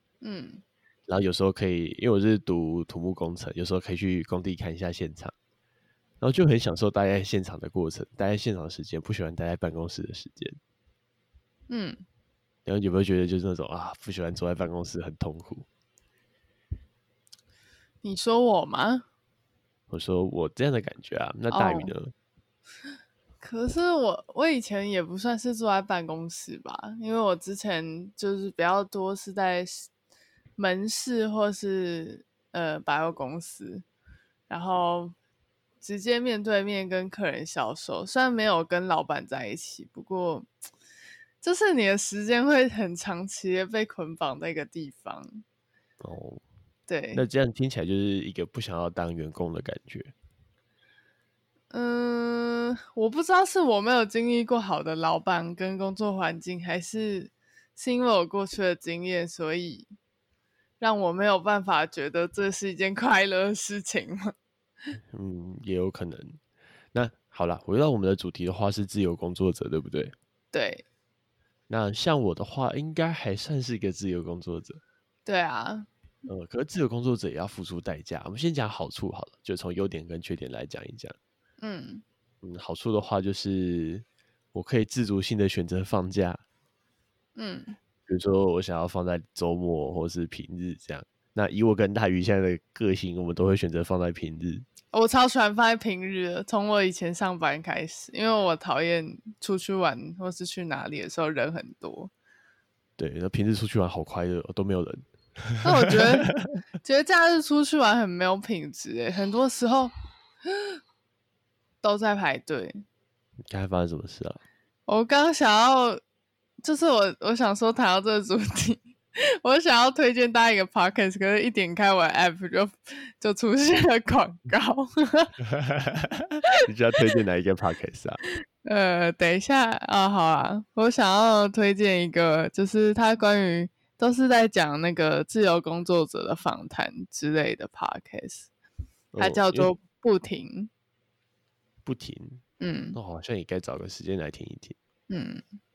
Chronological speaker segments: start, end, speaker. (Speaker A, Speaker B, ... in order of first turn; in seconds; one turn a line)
Speaker A: 0.2-0.6
Speaker B: 1.1-5.3
Speaker B: 6.2-10.6
Speaker A: 11.7-12.0
Speaker B: 12.7-15.7
Speaker A: 18.0-19.0
Speaker B: 19.9-22.1
Speaker A: 21.5-21.9
Speaker A: 23.4-29.9
Speaker A: 30.6-33.9
Speaker A: 34.5-35.1
Speaker A: 35.8-40.5
Speaker A: 41.4-45.4
Speaker B: 46.0-46.4
Speaker A: 46.9-47.3
Speaker B: 47.1-50.1
Speaker A: 51.7-59.9
Speaker A: 60.8-64.3
Speaker B: 65.1-66.4
Speaker B: 66.9-70.1
Speaker A: 70.5-70.8
Speaker B: 71.7-74.8
Speaker A: 75.2-75.9
Speaker B: 76.3-81.2
Speaker A: 81.6-82.0
Speaker B: 82.4-86.4
Speaker A: 87.4-87.8
Speaker B: 88.1-94.7
Speaker A: 94.9-102.1
Speaker B: 103.0-106.5
Speaker A: 105.6-106.3
Speaker A: 106.8-109.9
Speaker A: 111.8-112.8
Speaker B: 113.5-114.4
Speaker A: 114.9-116.0
Speaker A: 116.6-125.3
Speaker B: 125.5-128.2
Speaker A: 128.6-138.5
Speaker B: 139.1-139.7
Speaker A: 139.2-140.7
Speaker B: 141.8-142.4
Speaker A: 142.6-143.0
Speaker B: 142.9-144.8
Speaker A: 145.1-145.4